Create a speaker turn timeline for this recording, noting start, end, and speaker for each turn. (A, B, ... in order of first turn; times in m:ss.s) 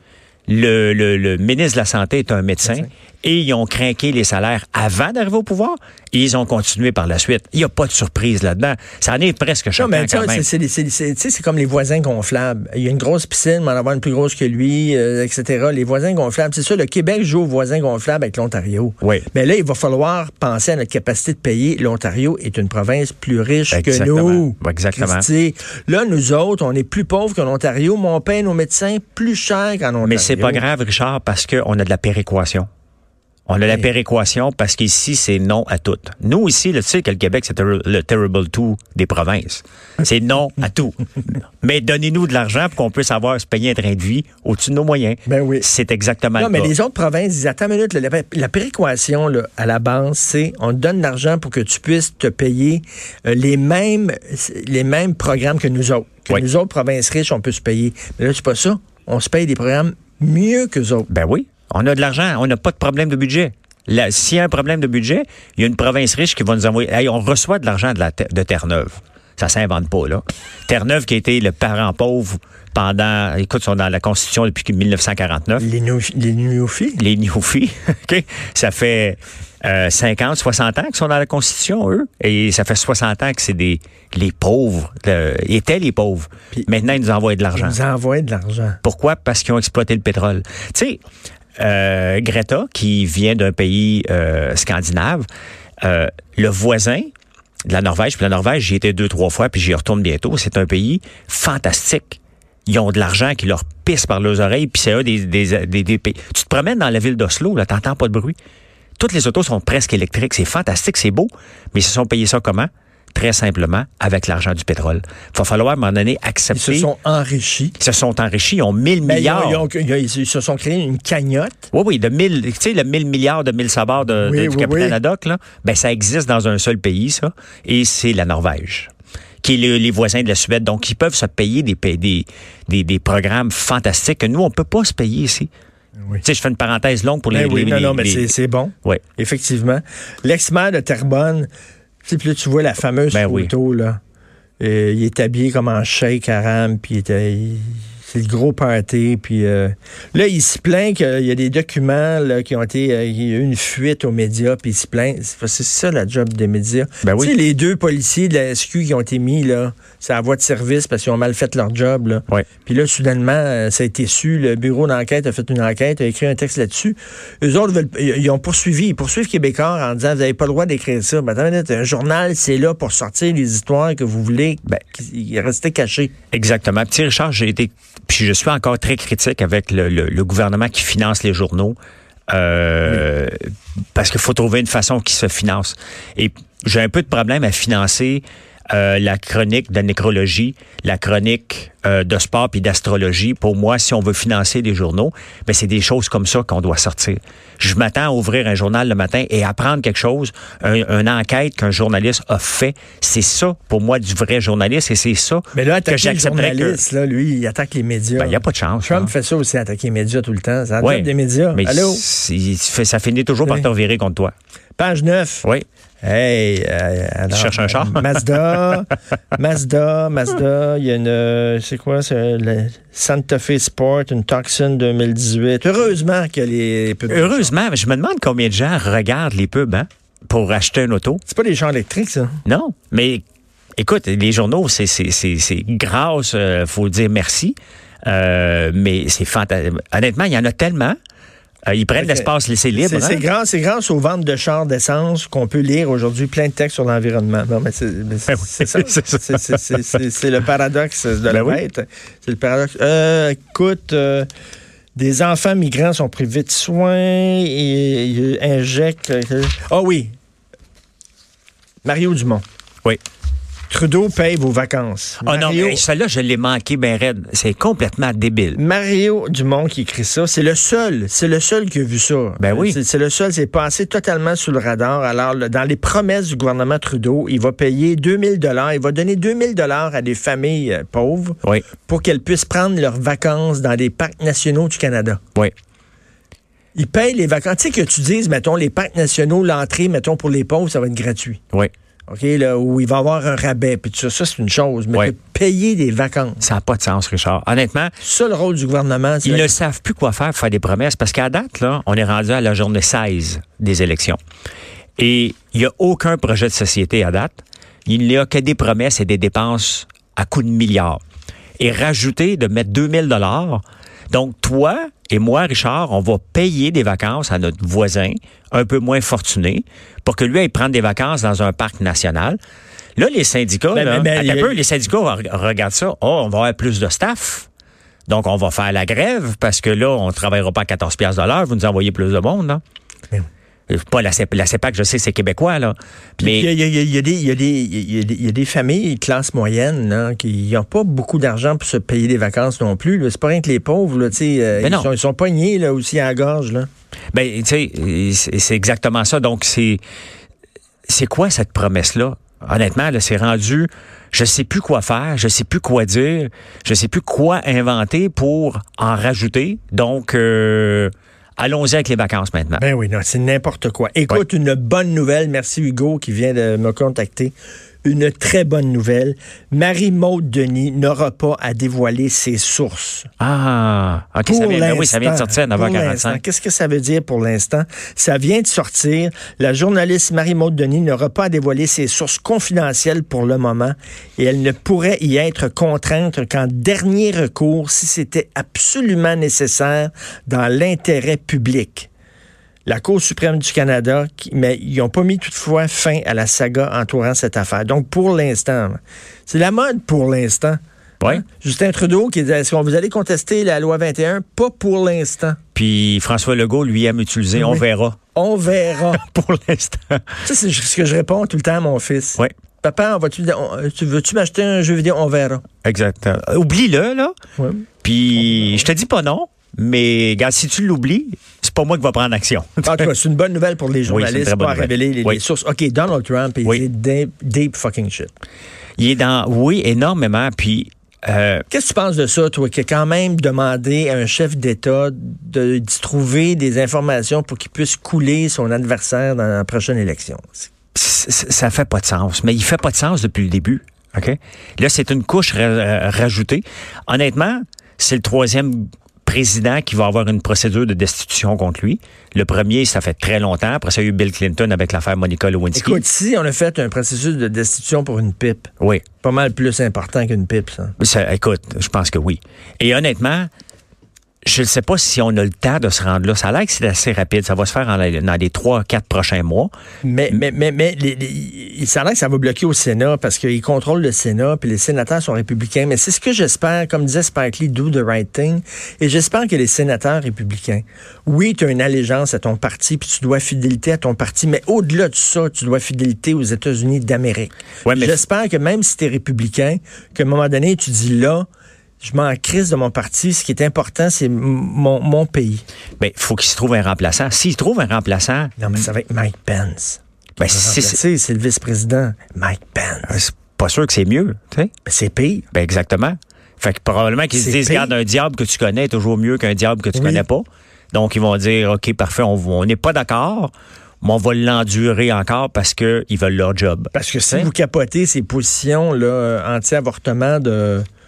0:00.5-0:10.5 A
0:09.8-0:30.6 B
0:19.0-0:19.3 A
0:23.7-0:25.3 A
0:30.0-0:32.7 A
0:33.5-0:46.7 A
0:45.3-0:45.7 B
0:46.4-1:01.1 B
1:01.1-1:15.7 A
1:15.6-1:17.0 B
1:17.0-1:27.8 A
1:27.6-1:28.8 B
1:28.8-1:31.0 A
1:31.6-1:35.3 A
1:35.8-1:37.1 A
1:37.6-1:48.4 A
1:49.0-1:56.9 A
1:56.5-1:57.8 B
1:57.8-1:59.7 A
1:59.0-2:01.7 B
2:01.7-2:08.9 A
2:04.2-2:05.0 B
2:09.4-2:15.5 A
2:16.2-2:19.0 A
2:17.3-2:21.5 B
2:22.0-2:24.0 B
2:23.1-2:23.5 A
2:24.6-2:56.1 B
2:37.0-2:37.3 A
2:56.3-3:01.8 A
3:02.3-3:26.8 A
3:25.5-3:32.0 B
3:28.2-3:29.1 A
3:30.8-3:34.3 A
3:34.8-3:35.5 B
3:36.0-3:47.5 B
3:37.3-3:38.2 A
3:47.1-3:51.2 A
3:51.3-3:52.4 B
3:52.4-3:53.2 A
3:53.8-4:01.0 A
4:01.7-4:03.2 A
4:02.0-4:14.3 B
4:08.3-4:10.0 A
4:11.3-4:11.6 A
4:15.0-4:20.1 B
4:21.8-4:22.4 B
4:23.7-4:25.8 B
4:25.2-4:28.6 A
4:28.6-4:45.2 B
4:32.4-4:32.8 A
4:46.8-4:51.4 B
4:52.1-4:56.4 B
4:56.4-4:57.9 A
4:58.0-4:59.5 B
4:59.2-5:04.2 A
5:05.0-5:11.0 A
5:11.6-5:22.4 A
5:23.0-5:27.5 A
5:23.7-5:24.6 B
5:28.1-5:32.6 A
5:33.7-5:36.5 A
5:36.2-5:46.7 B
5:44.6-5:44.9 A
5:47.1-5:49.8 A
5:50.9-6:02.6 A
6:02.6-6:13.1 B
6:13.2-6:16.2 A
6:14.3-6:31.9 B
6:32.7-6:45.4 B
6:45.6-6:48.0 A
6:47.4-6:47.6 B
6:48.2-6:49.0 B
6:48.9-6:50.2 A
6:50.2-6:55.4 B
6:55.6-6:57.2 A
6:57.4-6:57.6 B
6:57.8-7:02.9 A
7:02.6-7:08.1 B
7:03.9-7:05.2 A
7:08.8-7:11.4 A
7:11.5-7:20.5 B
7:20.8-7:35.8 A
7:35.6-7:40.8 B
7:40.8-7:43.3 A
7:44.2-7:49.5 A
7:49.8-8:11.3 B
8:07.6-8:08.0 A
8:11.8-8:15.4 B
8:15.8-8:18.6 A
8:18.4-8:23.0 B
8:20.2-8:20.8 A
8:22.9-8:24.5 A
8:24.7-8:25.2 B
8:25.3-8:37.3 A
8:27.2-8:27.7 B
8:29.8-8:30.0 B
8:36.7-8:40.7 B